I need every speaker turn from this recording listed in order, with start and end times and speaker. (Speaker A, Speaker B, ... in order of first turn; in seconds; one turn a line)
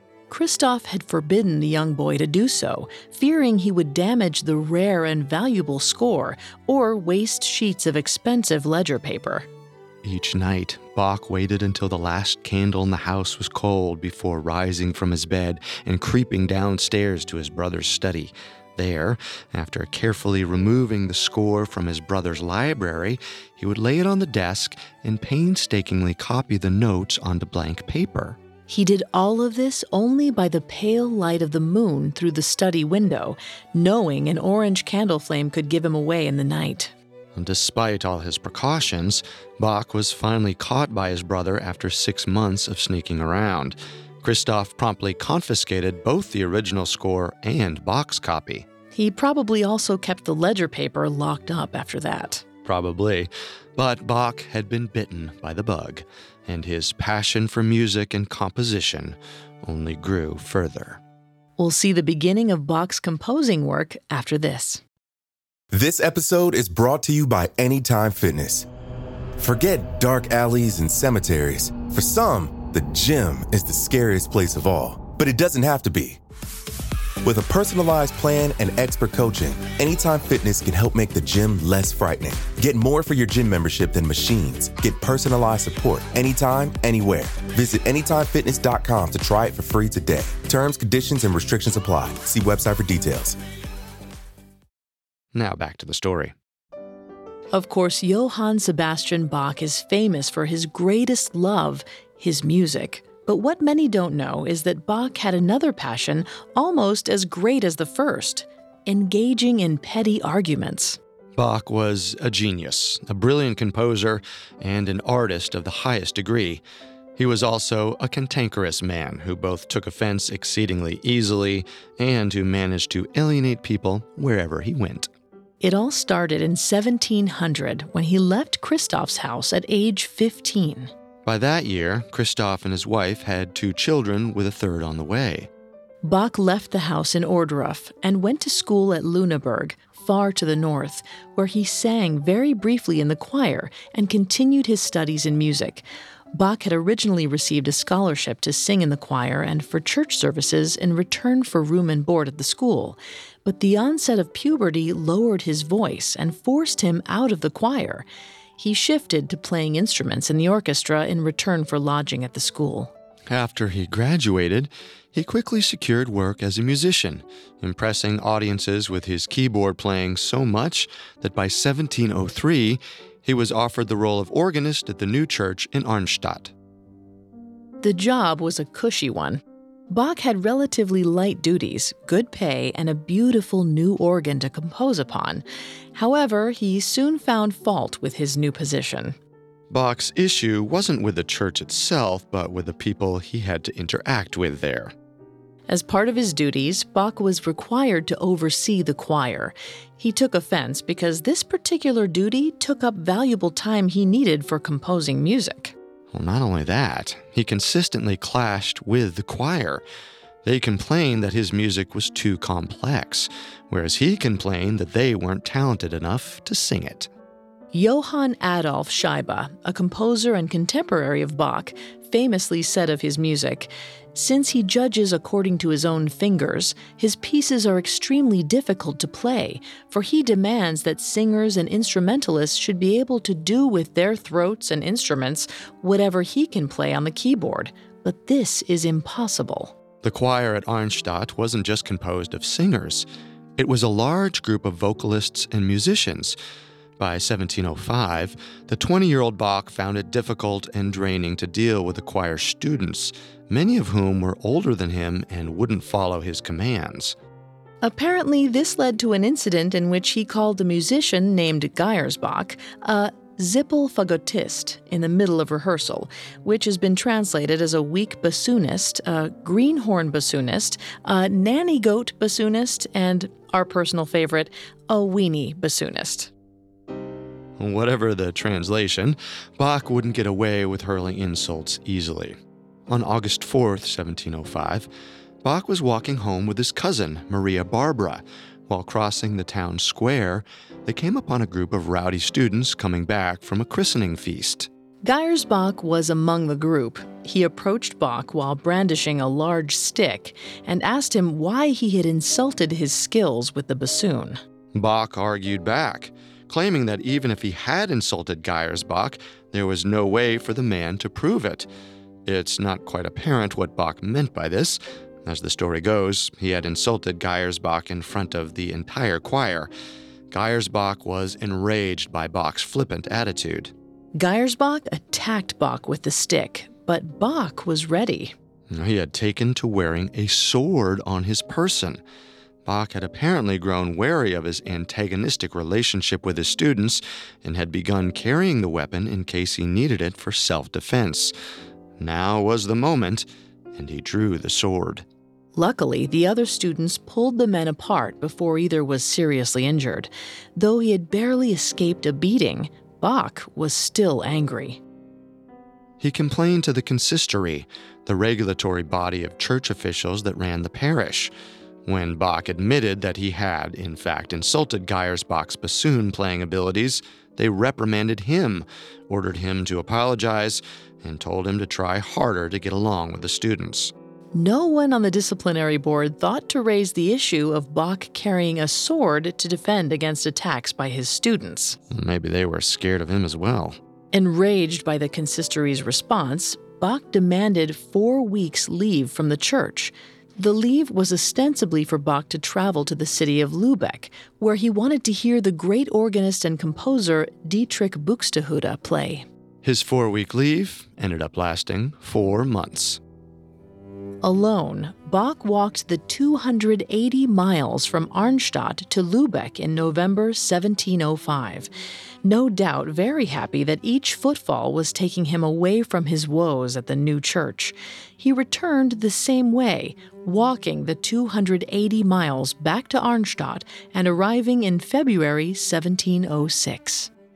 Speaker A: 0.3-9.5
Speaker B: 10.0-28.4
Speaker A: 28.7-36.9
Speaker B: 37.3-48.6
Speaker A: 48.9-52.4
Speaker B: 52.6-61.0
Speaker A: 61.6-64.8
Speaker C: 65.7-68.7
Speaker C: 69.4-76.2
Speaker C: 77.2-93.4
Speaker B: 95.3-96.3
Speaker A: 97.5-111.0
Speaker B: 111.3-116.6
Speaker B: 117.2-125.1
Speaker A: 125.6-130.9
Speaker B: 131.2-135.5
Speaker A: 136.0-158.1
Speaker A: 158.6-162.9
Speaker B: 163.3-176.5
Speaker A: 177.8-189.2
Speaker B: 189.7-194.9
Speaker A: 195.7-205.7
Speaker B: 206.1-209.8
Speaker B: 210.4-217.1
Speaker A: 217.7-239.7
Speaker B: 240.0-243.1
Speaker B: 243.6-246.3
Speaker B: 247.0-257.1
Speaker A: 257.8-276.3
Speaker B: 277.6-282.4
Speaker B: 282.9-284.9
Speaker B: 285.4-294.7
Speaker A: 295.0-304.4
Speaker B: 304.7-311.7
Speaker B: 312.2-319.7
Speaker B: 320.3-323.7
Speaker A: 324.1-328.3
Speaker B: 328.7-332.0
Speaker B: 332.6-341.3
Speaker B: 342.0-345.0
Speaker A: 345.5-354.8
Speaker B: 356.0-361.3
Speaker B: 361.9-373.9
Speaker A: 374.3-381.8
Speaker B: 381.9-383.8
Speaker A: 384.1-399.2
Speaker B: 399.6-403.0
Speaker A: 404.2-411.7
Speaker A: 412.2-427.1